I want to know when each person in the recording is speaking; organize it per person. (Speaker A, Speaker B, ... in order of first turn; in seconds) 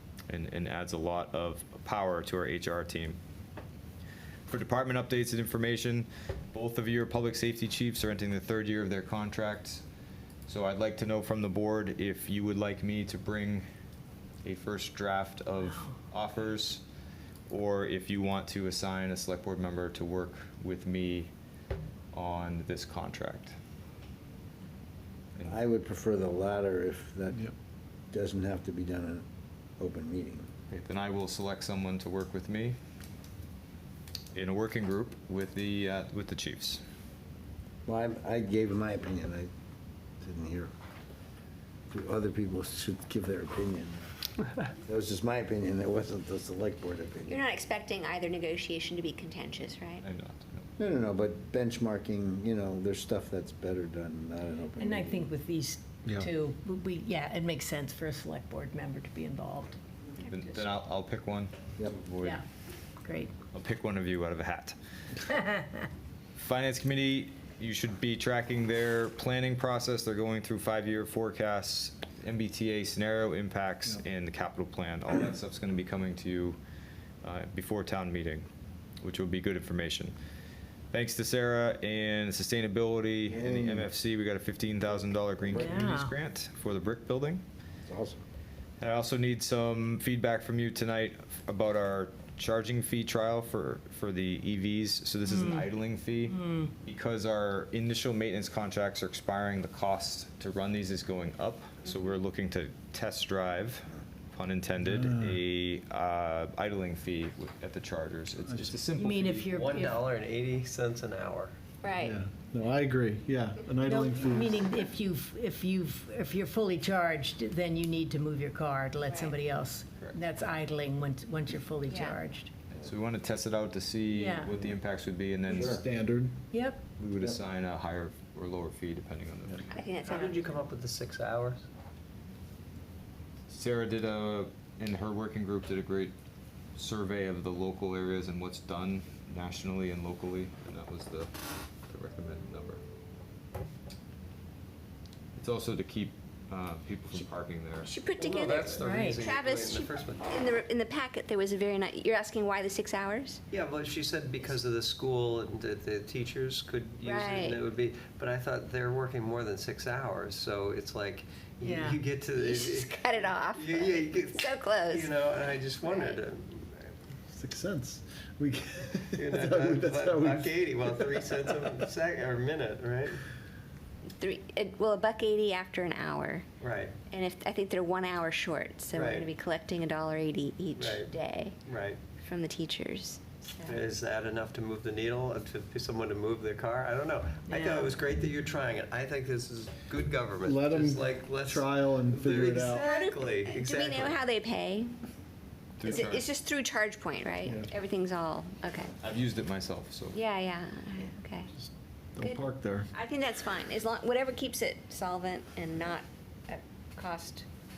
Speaker A: 0.3-3.2, 4.5-9.8, 10.5-13.6, 14.4-16.8, 17.5-21.3, 22.1-23.5, 30.7-32.8, 34.3-36.8, 50.0-50.7, 60.2-62.4, 63.5-64.8, 66.4-76.6, 77.2-78.5, 79.0-80.1, 80.9-87.4, 88.8-109.3, 122.7-125.9, 127.0-129.8, 133.5-136.1, 136.8-141.3, 141.9-142.8, 145.4-147.9, 195.8-196.3, 199.0-200.2
Speaker B: 25.4-27.4, 28.1-29.2, 29.8-30.5, 37.9-39.5, 40.2-40.7, 41.9-44.1, 44.8-47.4, 50.8-55.3, 83.3-83.9, 87.9-88.2, 125.5-125.8
Speaker C: 47.3-50.0, 111.8-112.2, 119.1-119.3, 121.9-122.2, 129.7-130.5, 147.8-153.4, 157.0-157.6, 162.3-166.2, 174.2-176.5, 177.1-181.6, 182.2-183.8, 187.5-187.9, 192.7-194.9, 195.8-198.9, 200.1-201.5, 202.9-207.4
Speaker D: 54.8-59.8, 63.0-63.3, 65.3-65.8, 85.6-86.1, 95.3-95.7, 96.3-96.7, 108.9-110.0, 113.8-122.5, 124.1-124.5, 126.5-126.8, 148.8-149.2, 161.6-162.0
Speaker E: 104.8-105.4, 108.5-108.8, 112.0-114.7, 125.5-126.4, 167.3-171.7, 190.4-192.9, 197.4-197.7, 201.5-202.9
Speaker F: 109.2-111.5, 130.0-131.6, 148.2-150.3, 153.5-166.9, 169.1-173.2, 176.6-176.9, 178.9-179.3, 180.8-181.1, 181.7-182.0, 183.6-194.2